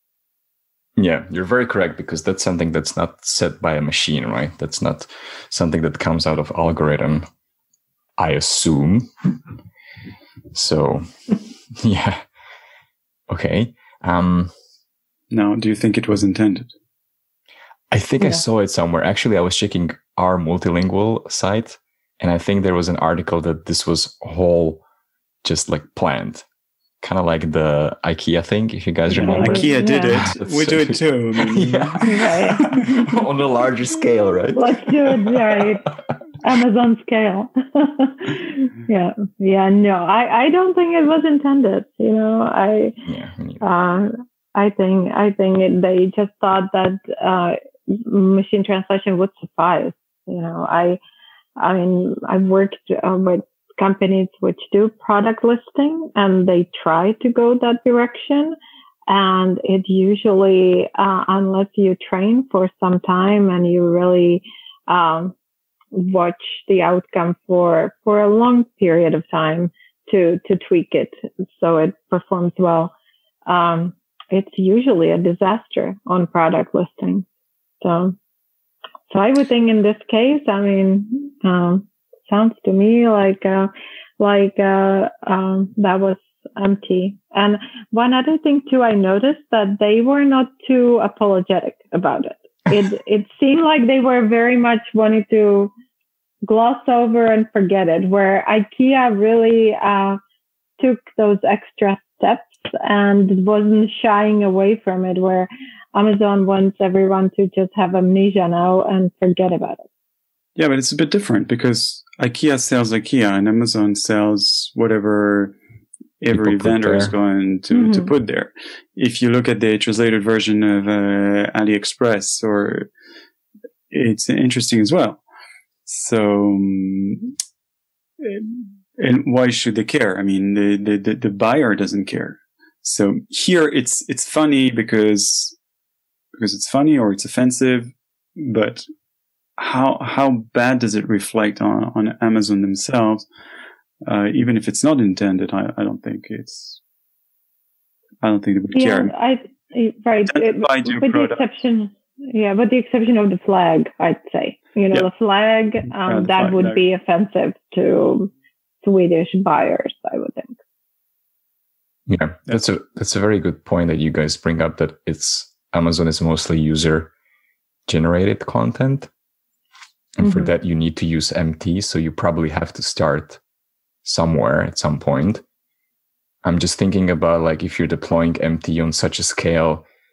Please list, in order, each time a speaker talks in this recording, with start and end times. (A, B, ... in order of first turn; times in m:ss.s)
0:01.0-0:07.2 A
0:08.2-0:09.3 A
0:10.5-0:12.2 A
0:13.3-0:14.5 A
0:15.3-0:16.7 B
0:17.9-0:24.8 A
0:25.4-0:26.4 A
0:27.0-0:35.6 A
0:29.1-0:30.2 C
0:29.2-0:32.1 B
0:32.0-0:33.2 C
0:34.5-0:42.9 C
0:43.0-0:43.6 A
0:43.6-0:51.0 C
0:51.6-0:58.6 C
0:59.1-1:05.3 C
1:05.9-1:12.9 C
1:13.5-1:17.2 C
1:17.8-1:18.2 C
1:19.1-1:35.7 C
1:36.4-1:40.2 C
1:40.8-1:49.9 C
1:50.6-1:55.6 B
1:56.2-2:02.9 B
1:56.3-1:57.1 A
1:57.7-1:58.1 C
2:03.9-2:05.2 B
2:05.8-2:07.4 B
2:08.2-2:15.6 B
2:16.4-2:18.9 B
2:19.6-2:23.3 B
2:24.0-2:26.8 B
2:28.2-2:29.1 B
2:28.7-2:38.3 C
2:30.3-2:31.5 B
2:35.9-2:36.8 B
2:38.8-2:40.6 C
2:42.1-2:47.1 A
2:47.9-2:49.1 A
2:50.2-2:53.4 A
2:50.2-2:50.5 C
2:54.0-2:55.4 A
2:56.4-2:59.8 A